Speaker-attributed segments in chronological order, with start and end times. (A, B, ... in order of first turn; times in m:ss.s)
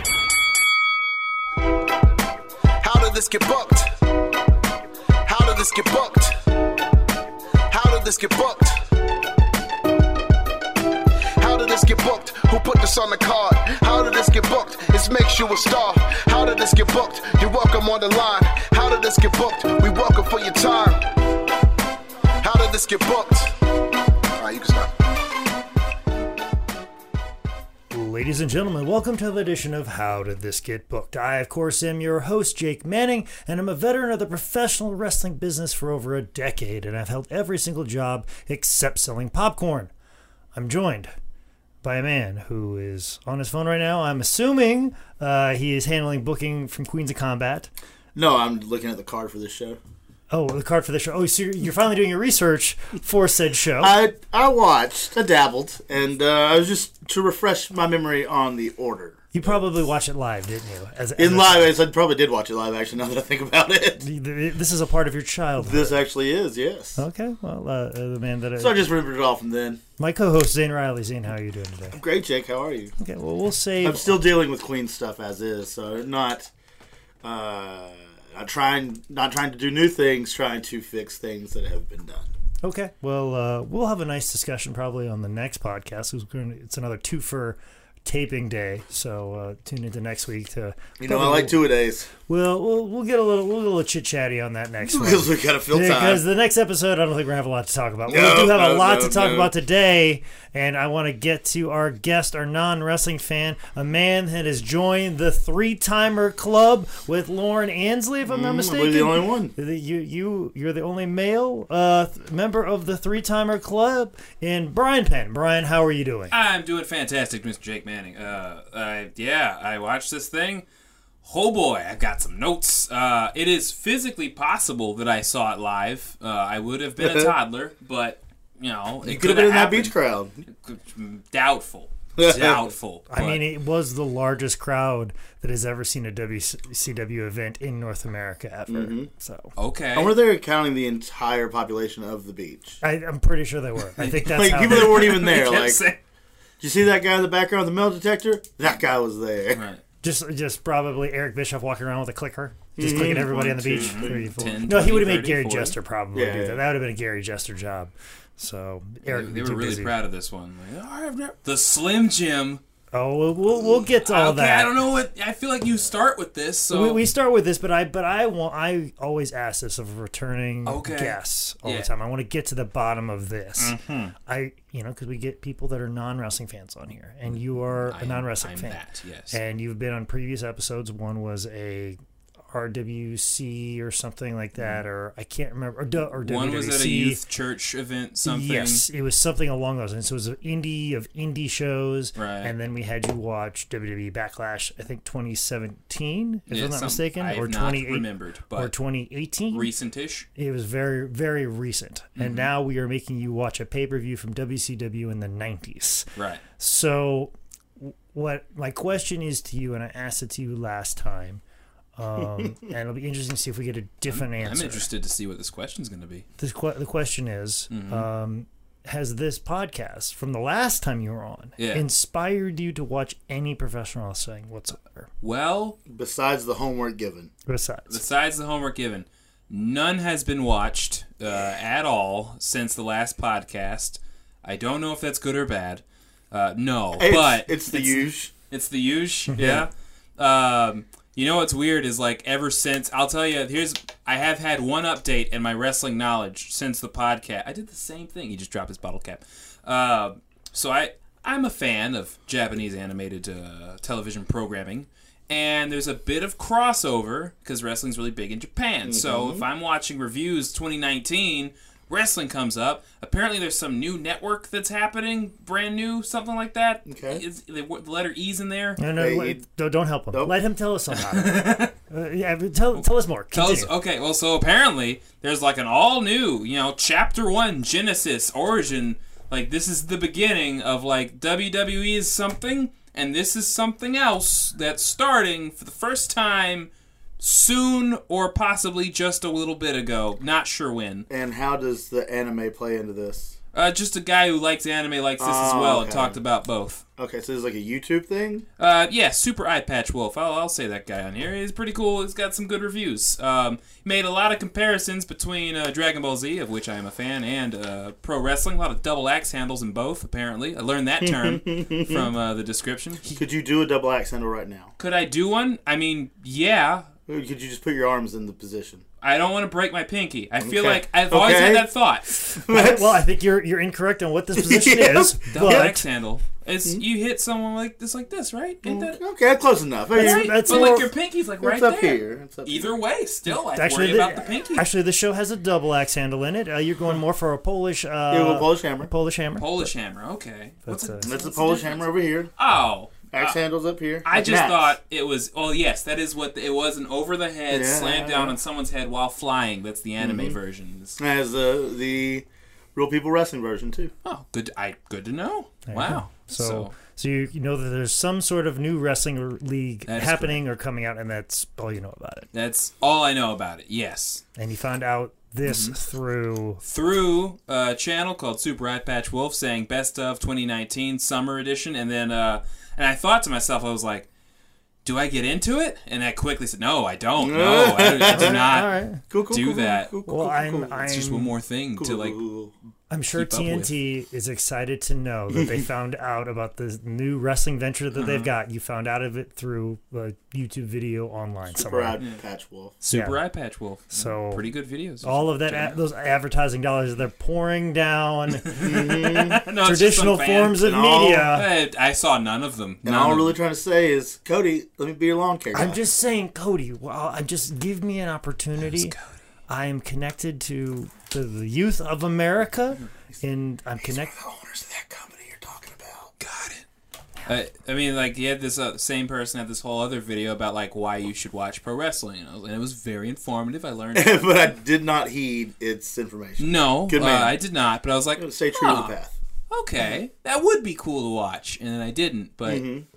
0:02.8-0:03.9 A
0:05.3-0:06.5 A
0:07.7-0:08.9 A
0:11.4-0:21.1 A
0:22.4-0:23.6 A
0:24.4-0:25.0 A
0:27.9-0:39.9 B
0:40.6-0:41.1 B
0:41.8-0:47.7 B
0:48.2-0:49.8 C
0:50.3-0:54.0 B
0:53.8-0:59.6 C
0:59.3-1:01.8 B
1:01.2-1:04.0 C
1:04.0-1:06.0 B
1:05.6-1:07.0 C
1:07.0-1:08.8 B
1:08.6-1:09.8 C
1:10.0-1:12.0 B
1:11.9-1:12.9 C
1:13.0-1:14.2 B
1:13.8-1:16.5 C
1:17.2-1:22.3 C
1:22.6-1:31.6 B
1:31.0-1:32.1 C
1:32.3-1:56.3 B
1:34.8-1:36.2 C
1:38.1-1:39.5 C
1:48.2-1:49.5 C
1:56.3-2:00.6 D
2:01.2-2:09.9 D
2:07.0-2:07.4 C
2:09.0-2:10.4 C
2:10.5-2:13.4 D
2:12.2-2:12.7 C
2:13.1-2:19.5 B
2:18.7-2:19.1 C
2:19.6-2:20.2 D
2:19.9-2:22.8 C
2:22.8-2:25.2 B
2:24.0-2:26.0 D
2:24.3-2:25.8 C
2:26.6-2:29.6 C
2:29.5-2:29.8 D
2:30.0-2:40.0 B
2:32.8-2:34.6 C
2:33.8-2:35.8 D
2:36.1-2:36.6 C
2:39.0-2:42.6 D
2:42.9-2:44.7 B
2:43.9-2:47.1 D
2:46.7-3:02.0 B
2:50.7-2:51.9 D
2:53.6-2:54.1 D
2:57.3-2:59.4 D
3:02.5-3:07.2 B
3:06.2-3:08.8 D
3:08.2-3:19.7 B
3:12.2-3:12.5 D
3:16.5-3:18.7 D
3:19.5-3:20.3 D
3:20.4-3:31.4 B
3:22.2-3:22.5 D
3:26.2-3:26.4 D
3:32.0-3:34.9 B
3:34.1-3:36.3 D
3:36.4-3:45.1 B
3:37.7-3:38.0 D
3:41.6-3:41.8 D
3:45.2-3:45.8 D
3:45.9-3:47.3 C
3:47.5-3:48.0 B
3:47.9-4:28.8 D
3:57.0-3:58.3 C
3:59.4-3:59.7 C
4:18.8-4:19.4 C
4:26.9-4:27.2 C
4:28.8-4:33.7 B
4:29.0-4:29.4 C
4:30.9-4:31.7 D
4:32.8-4:51.1 D
4:51.1-4:53.4 C
4:53.5-4:56.8 D
4:55.2-4:56.2 C
4:57.0-4:58.4 C
4:58.6-5:13.0 D
5:11.0-5:12.1 C
5:13.2-5:14.7 C
5:14.8-5:16.9 D
5:17.1-5:18.8 C
5:19.0-5:22.1 D
5:20.4-5:21.7 C
5:22.3-5:25.9 B
5:22.4-5:23.0 C
5:24.4-5:25.7 C
5:25.3-5:29.0 D
5:28.6-5:30.8 C
5:29.9-5:30.9 B
5:30.0-5:34.7 D
5:31.4-5:32.8 C
5:33.3-5:39.7 B
5:38.1-5:38.9 C
5:39.4-5:43.4 D
5:40.7-5:41.1 B
5:41.0-5:42.3 C
5:43.1-5:44.7 C
5:44.0-5:51.0 D
5:47.5-5:48.4 C
5:50.0-5:50.4 C
5:51.0-5:53.9 C
5:54.0-5:56.7 D
5:55.7-6:02.3 B
5:59.9-6:00.4 D
6:02.3-6:04.2 D
6:04.4-6:06.6 B
6:05.5-6:05.7 D
6:06.6-6:14.1 D
6:14.8-6:18.7 D
6:17.2-6:18.4 C
6:18.0-6:19.0 B
6:19.1-6:20.8 C
6:19.3-6:19.9 D
6:20.1-6:21.3 B
6:20.9-6:22.2 D
6:21.8-6:22.5 C
6:22.9-6:32.0 B
6:23.1-6:23.7 D
6:25.3-6:25.6 C
6:27.9-6:28.3 D
6:31.6-6:32.8 C
6:32.8-6:35.8 D
6:32.8-6:33.2 B
6:33.9-6:34.5 B
6:35.0-6:39.1 B
6:38.4-6:40.6 D
6:38.6-6:39.4 C
6:39.6-6:41.5 B
6:40.6-6:41.3 C
6:41.3-6:43.4 D
6:42.8-6:45.8 C
6:45.5-6:49.0 B
6:48.7-6:49.0 D
6:49.5-6:54.2 B
6:53.8-6:56.1 C
6:56.2-6:56.6 D
6:57.3-7:04.4 D
7:03.9-7:07.4 C
7:06.4-7:08.9 D
7:08.2-7:09.1 C
7:09.5-7:12.7 D
7:12.5-7:12.9 C